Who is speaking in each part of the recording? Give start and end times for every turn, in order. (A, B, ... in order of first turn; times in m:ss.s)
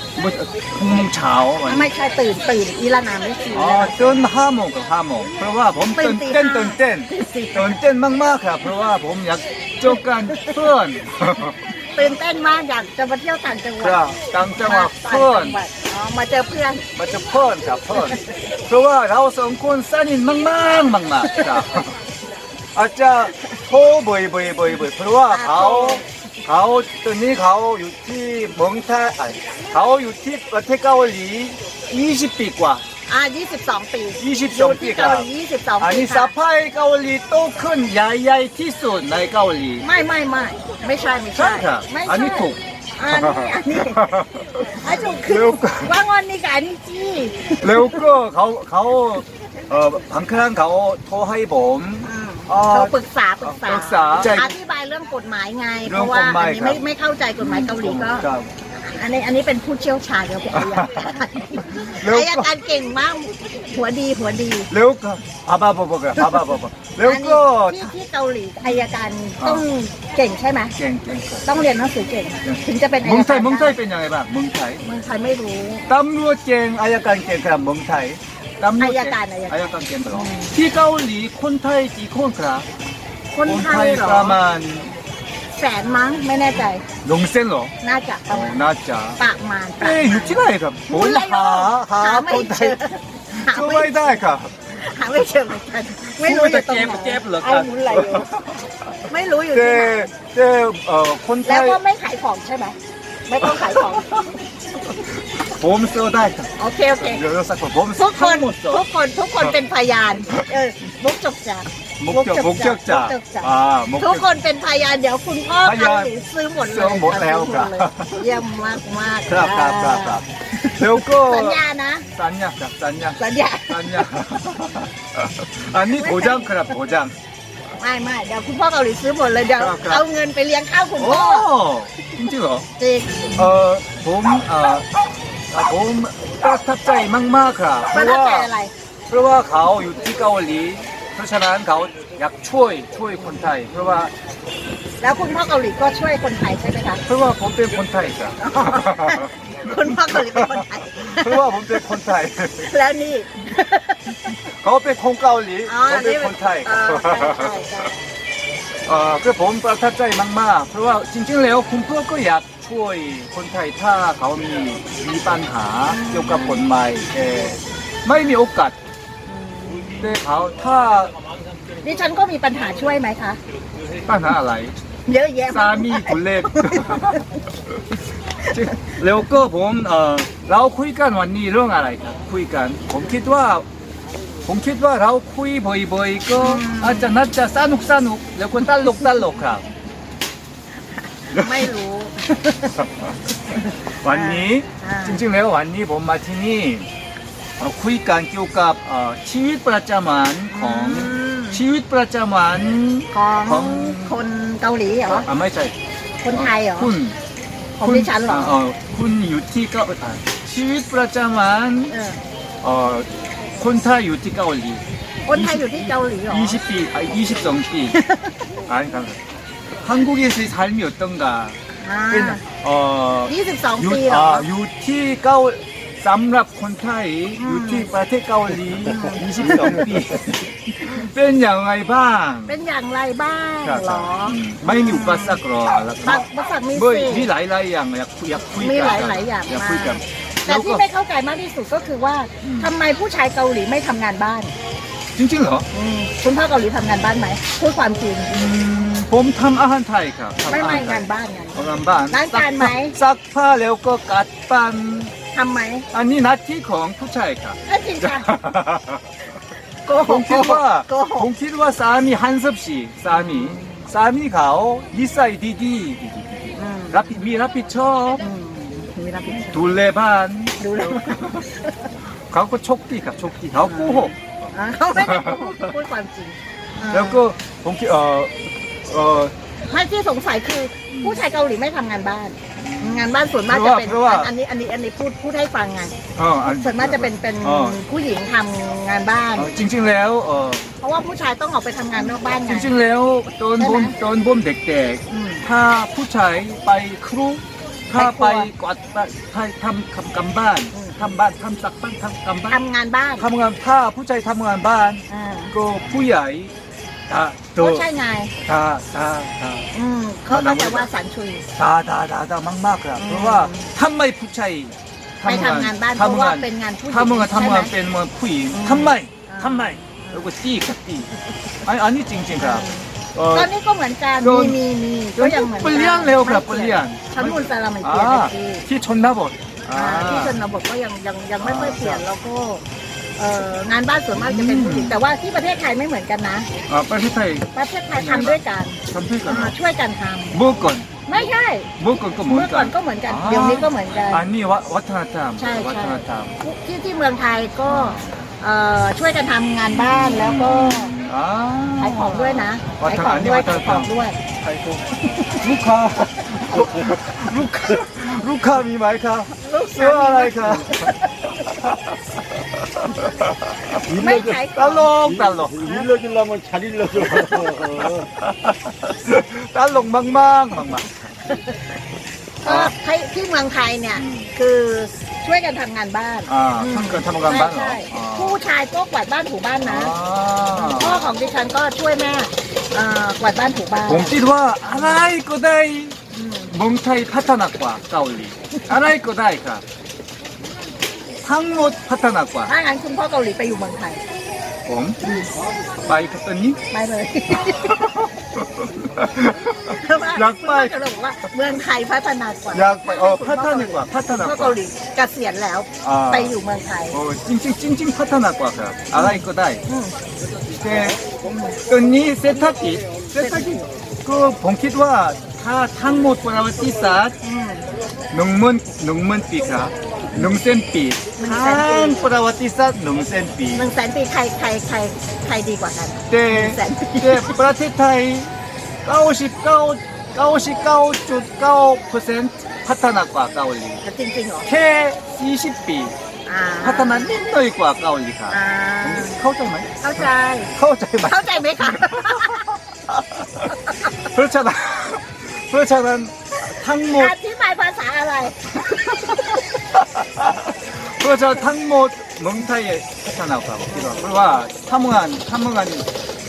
0:00.2-0:01.9 A
0:01.7-0:04.2 B
0:03.5-0:11.6 A
0:06.0-0:07.8 B
0:10.0-0:10.6 B
0:11.8-0:16.9 B
0:13.8-0:15.6 A
0:17.0-0:21.9 A
0:18.0-0:18.3 B
0:22.7-0:32.8 A
0:25.3-0:26.1 B
0:33.1-0:36.3 B
0:34.2-0:35.3 A
0:35.8-0:39.8 A
0:39.8-0:44.0 B
0:41.4-0:45.9 A
0:44.8-0:48.0 B
0:47.6-0:54.5 A
0:52.0-1:04.7 B
0:55.9-0:56.8 A
0:57.4-0:58.5 A
1:00.5-1:02.5 A
1:04.7-1:07.9 A
1:07.0-1:10.8 B
1:09.4-1:09.6 A
1:10.8-1:11.5 A
1:11.5-1:13.8 B
1:12.4-1:14.8 A
1:14.8-1:15.9 B
1:15.9-1:22.7 A
1:18.8-1:19.5 B
1:20.1-1:20.6 B
1:23.3-1:24.4 B
1:23.4-1:25.0 A
1:25.6-1:26.8 B
1:27.0-1:27.7 A
1:27.8-1:28.6 B
1:28.3-1:29.2 A
1:29.2-1:34.2 B
1:29.8-1:32.8 A
1:33.3-1:34.6 A
1:34.7-1:38.3 B
1:36.2-1:39.0 A
1:39.1-1:40.1 B
1:39.5-1:41.8 A
1:41.4-1:42.8 B
1:43.3-1:44.2 B
1:43.4-1:46.5 A
1:46.6-1:47.2 B
1:47.0-1:48.8 A
1:48.0-2:02.1 B
1:52.0-1:54.3 A
1:55.6-1:56.1 A
1:56.7-1:58.4 A
1:59.3-2:00.2 A
2:00.8-2:03.2 A
2:03.2-2:04.1 B
2:03.7-2:07.2 A
2:05.9-2:06.5 B
2:07.8-2:11.5 B
2:09.6-2:10.0 A
2:11.0-2:12.7 A
2:12.8-2:13.5 B
2:13.4-2:14.9 A
2:15.5-2:18.5 A
2:17.9-2:18.7 B
2:19.1-2:24.1 A
2:23.2-2:23.5 B
2:25.0-2:27.0 B
2:27.1-2:32.7 A
2:28.4-2:31.9 B
2:32.6-2:34.4 B
2:34.4-2:37.5 A
2:35.7-2:38.0 B
2:38.8-2:48.8 A
2:45.9-2:46.6 B
2:47.2-2:47.5 B
2:49.3-2:50.2 B
2:50.0-2:51.2 A
2:51.8-2:53.4 B
2:54.1-2:54.8 A
2:55.1-2:57.2 B
2:55.5-2:57.2 A
2:58.5-3:03.7 A
3:04.4-3:09.6 A
3:06.4-3:07.1 B
3:11.0-3:12.8 B
3:11.3-3:11.7 A
3:12.8-3:13.1 A
3:13.5-3:15.2 B
3:14.0-3:16.9 A
3:17.6-3:24.2 A
3:20.5-3:21.6 B
3:23.1-3:25.3 B
3:25.1-3:25.7 A
3:26.2-3:26.9 B
3:26.3-3:27.2 A
3:27.8-3:28.6 B
3:27.8-3:31.9 A
3:31.9-3:32.2 B
3:32.6-3:38.0 A
3:35.3-3:36.6 B
3:37.9-3:38.4 B
3:38.7-3:39.2 A
3:39.8-3:41.6 A
3:41.8-3:42.4 B
3:42.1-3:52.6 A
3:43.3-3:44.5 B
3:47.4-3:47.9 B
3:48.8-3:49.8 B
3:50.8-3:51.1 B
3:52.5-3:55.4 B
3:53.6-4:00.8 A
3:56.0-3:57.3 B
3:58.6-4:04.5 B
4:02.4-4:02.7 A
4:05.2-4:05.7 A
4:05.7-4:08.3 B
4:08.3-4:15.1 A
4:10.4-4:13.0 B
4:15.3-4:15.9 B
4:15.9-4:19.0 A
4:17.7-4:18.3 B
4:19.8-4:21.3 B
4:20.0-4:28.3 A
4:23.1-4:23.9 B
4:26.6-4:27.2 B
4:28.2-4:29.8 B
4:29.5-4:31.5 A
4:30.6-4:31.9 B
4:32.3-4:34.2 A
4:33.6-4:37.2 B
4:34.9-4:35.7 A
4:36.9-4:39.3 A
4:39.6-4:46.0 B
4:40.9-4:41.2 A
4:42.6-4:44.3 A
4:46.2-4:47.8 A
4:46.5-4:49.5 B
4:49.4-4:50.7 A
4:50.8-4:52.7 B
4:52.0-5:02.6 A
4:53.6-4:54.0 B
4:55.1-4:55.5 B
4:57.9-4:58.5 B
5:00.7-5:01.2 B
5:02.5-5:03.2 B
5:03.2-5:06.5 A
5:05.1-5:05.5 B
5:07.1-5:07.9 A
5:07.6-5:08.3 B
5:08.4-5:09.7 A
5:09.7-5:11.4 B
5:10.3-5:10.9 A
5:11.6-5:21.1 A
5:13.0-5:13.7 B
5:15.2-5:17.7 B
5:18.5-5:20.3 B
5:21.6-5:23.5 A
5:22.4-5:28.6 B
5:24.2-5:24.6 A
5:25.2-5:30.4 A
5:29.7-5:32.6 B
5:31.4-5:32.0 A
5:33.2-5:36.5 B
5:34.1-5:35.0 A
5:36.7-5:39.6 A
5:37.6-5:40.4 B
5:40.3-5:40.9 A
5:41.0-5:41.7 B
5:41.8-5:46.4 A
5:42.3-5:44.2 B
5:45.4-5:50.9 B
5:47.7-5:48.3 A
5:49.7-6:03.8 A
5:51.8-5:54.2 B
5:56.6-5:56.9 C
5:59.4-6:01.4 B
6:03.9-6:04.4 C
6:03.9-6:05.0 B
6:04.5-6:05.7 A
6:05.0-6:08.1 C
6:07.1-6:11.2 A
6:11.2-6:11.5 B
6:12.4-6:19.9 B
6:12.4-6:12.7 A
6:13.9-6:14.3 A
6:16.3-6:18.4 A
6:19.6-6:21.1 A
6:20.5-6:25.1 B
6:23.9-6:26.0 A
6:26.1-6:26.5 B
6:26.5-6:29.6 A
6:31.2-6:32.5 A
6:32.5-6:34.0 B
6:34.7-6:35.0 A
6:35.0-6:35.3 B
6:35.8-6:36.6 A
6:36.7-6:38.0 B
6:37.5-6:40.7 A
6:39.7-6:47.0 B
6:42.5-6:44.6 A
6:45.8-6:46.4 A
6:46.9-6:49.6 A
6:48.9-6:50.0 B
6:50.6-6:51.0 A
6:51.2-6:51.6 B
6:51.7-6:57.2 A
6:53.2-6:53.7 B
6:57.2-6:57.7 B
6:58.1-7:03.7 A
7:01.2-7:02.1 B
7:03.6-7:07.4 B
7:06.1-7:08.3 A
7:08.8-7:13.8 A
7:13.8-7:14.5 B
7:14.5-7:16.0 A
7:16.3-7:17.2 B
7:16.6-7:27.2 A
7:18.3-7:19.2 B
7:19.8-7:20.5 B
7:21.0-7:22.5 B
7:26.9-7:29.4 B
7:28.6-7:35.8 A
7:33.7-7:34.4 B